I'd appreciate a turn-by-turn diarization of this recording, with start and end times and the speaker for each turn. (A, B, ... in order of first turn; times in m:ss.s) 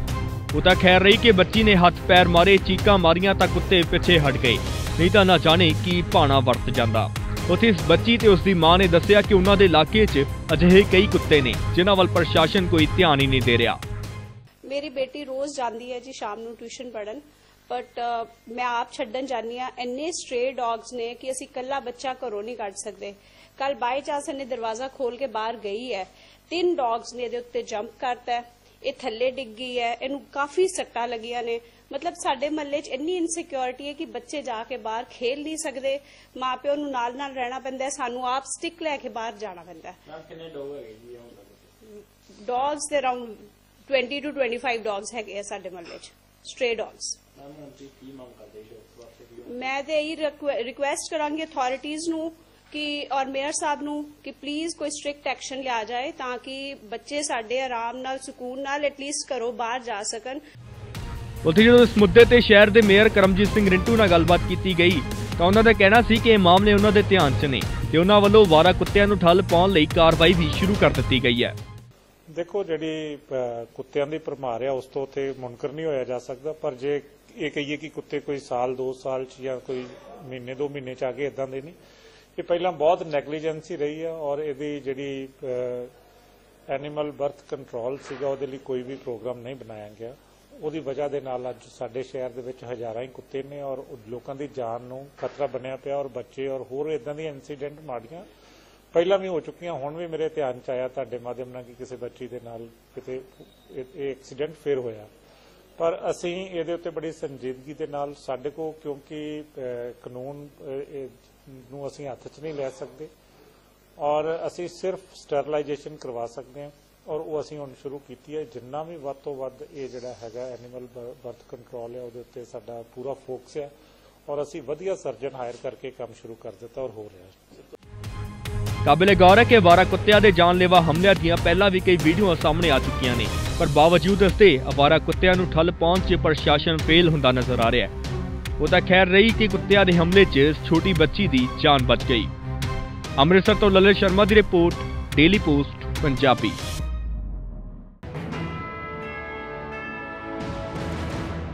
0:00.5-0:13.8 A
0:14.7-0:40.0 B
0:40.1-0:41.7 C
0:41.8-0:47.2 B
0:47.4-0:49.5 C
0:49.5-1:00.4 B
1:01.4-1:11.6 A
1:12.3-1:21.8 D
1:22.4-1:25.9 D
1:26.7-1:38.3 D
1:38.9-1:45.1 D
1:45.8-1:53.1 D
1:54.0-2:03.7 D
2:04.3-2:07.6 D
2:08.8-2:17.9 A
2:18.6-2:22.3 A
2:23.2-2:26.6 A